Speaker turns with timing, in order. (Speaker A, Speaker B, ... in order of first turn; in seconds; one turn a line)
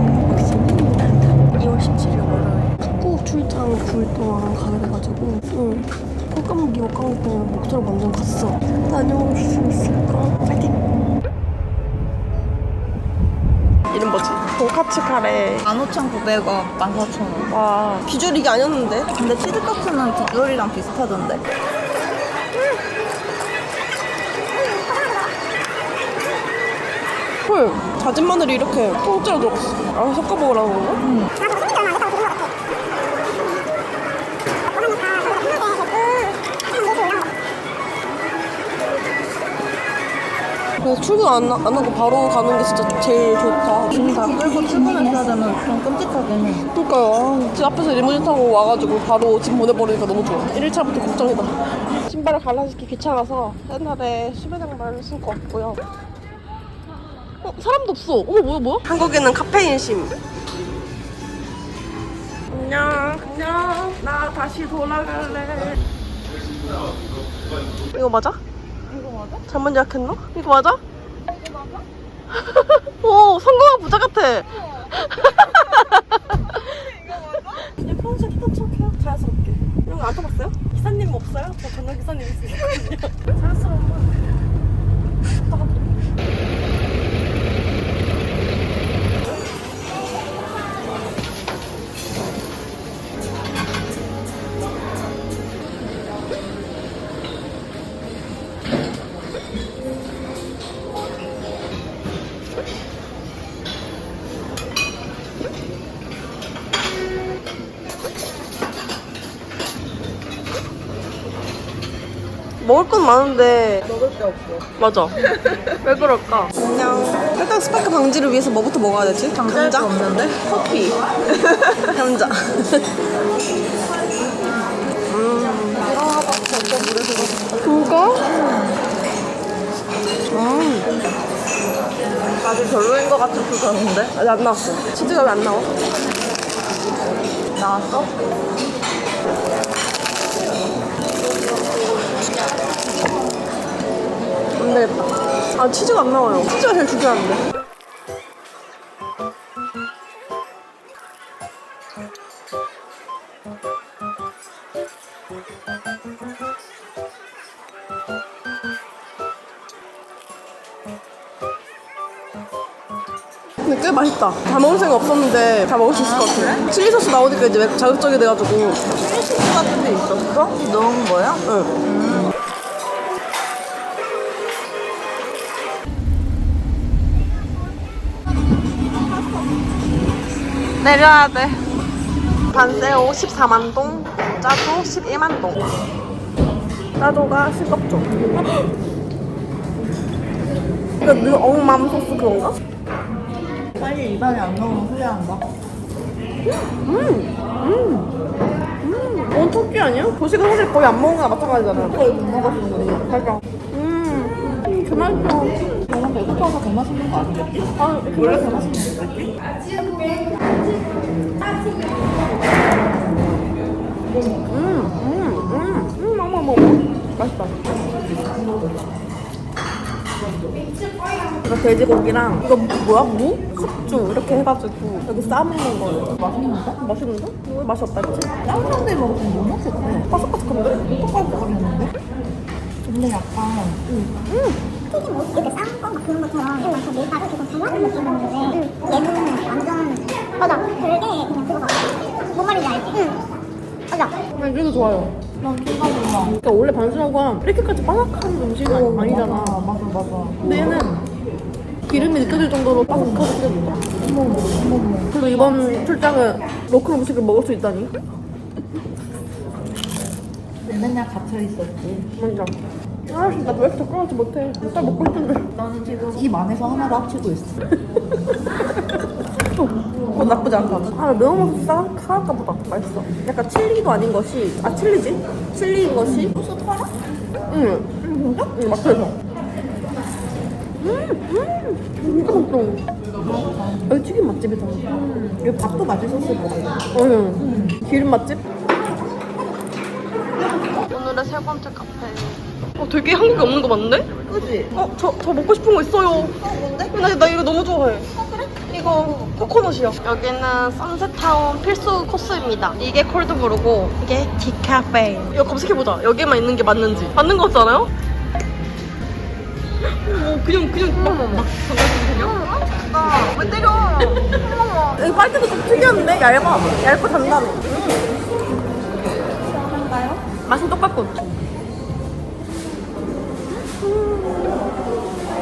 Speaker A: 0.2-10.9
Speaker A: 13.9-15.6
Speaker B: 15.6-17.5
Speaker A: 17.5-19.1
Speaker B: 19.1-21.4
Speaker A: 27.4-32.4
Speaker B: 31.0-31.3
Speaker A: 34.7-37.3
Speaker A: 40.8-44.1
Speaker B: 43.9-46.7
Speaker A: 46.7-55.8
Speaker A: 57.4-60.1
Speaker A: 62.5-65.8
Speaker A: 67.9-68.4
Speaker B: 68.9-69.4
Speaker A: 69.5-70.8
Speaker B: 71.2-71.8
Speaker A: 72.3-76.7
Speaker B: 74.8-75.4
Speaker B: 76.5-77.7
Speaker A: 77.6-84.0
Speaker A: 85.3-85.9
Speaker A: 112.6-113.8
Speaker B: 113.8-114.7
Speaker A: 114.8-115.2
Speaker B: 115.2-115.7
Speaker A: 115.8-119.9
Speaker B: 119.3-121.0
Speaker A: 120.5-122.9
Speaker B: 124.1-124.6
Speaker A: 125.1-125.8
Speaker B: 125.8-128.8
Speaker A: 127.6-128.3
Speaker A: 130.3-130.8
Speaker B: 132.4-134.1
Speaker A: 134.1-135.7
Speaker B: 137.5-138.2
Speaker A: 144.6-147.4
Speaker A: 163.6-168.9
Speaker B: 165.9-166.7
Speaker B: 168.9-172.3
Speaker A: 171.4-171.7
Speaker A: 180.8-181.6
Speaker A: 182.5-185.6
Speaker A: 187.0-188.6
Speaker A: 191.0-192.6
Speaker B: 193.8-195.4
Speaker A: 196.5-198.1
Speaker A: 198.8-202.0
Speaker B: 201.8-203.3
Speaker A: 203.1-205.6
Speaker B: 205.8-209.3
Speaker A: 207.8-208.7
Speaker A: 214.5-217.6
Speaker A: 221.4-226.1
Speaker B: 226.2-226.7
Speaker A: 226.7-228.3
Speaker B: 228.4-230.1
Speaker A: 229.9-230.9
Speaker B: 230.9-231.9
Speaker B: 232.8-234.1
Speaker A: 234.3-234.6
Speaker C: 234.9-243.2
Speaker C: 243.9-244.2
Speaker A: 244.3-245.1
Speaker B: 245.4-246.4
Speaker A: 246.4-249.6
Speaker B: 248.7-250.4
Speaker A: 250.4-251.0
Speaker A: 251.9-253.8
Speaker B: 254.0-255.2
Speaker A: 255.1-257.9
Speaker B: 260.6-262.1
Speaker A: 262.1-262.5
Speaker A: 263.1-265.5
Speaker B: 265.5-267.6
Speaker A: 268.1-276.4
Speaker B: 276.1-276.9
Speaker A: 277.5-277.9
Speaker B: 278.0-278.6
Speaker A: 278.5-279.2
Speaker A: 280.8-282.8
Speaker B: 283.3-283.8
Speaker A: 283.9-284.9
Speaker B: 285.0-286.9
Speaker A: 286.9-288.4
Speaker A: 290.7-294.1
Speaker B: 294.3-294.7
Speaker A: 294.7-296.4
Speaker B: 296.4-297.0
Speaker A: 296.9-298.1
Speaker B: 298.2-299.3
Speaker A: 298.7-307.9
Speaker A: 309.8-312.4
Speaker B: 311.0-311.4
Speaker B: 312.1-315.0
Speaker A: 315.0-318.1
Speaker B: 319.1-320.2
Speaker A: 320.4-321.4
Speaker A: 323.7-324.7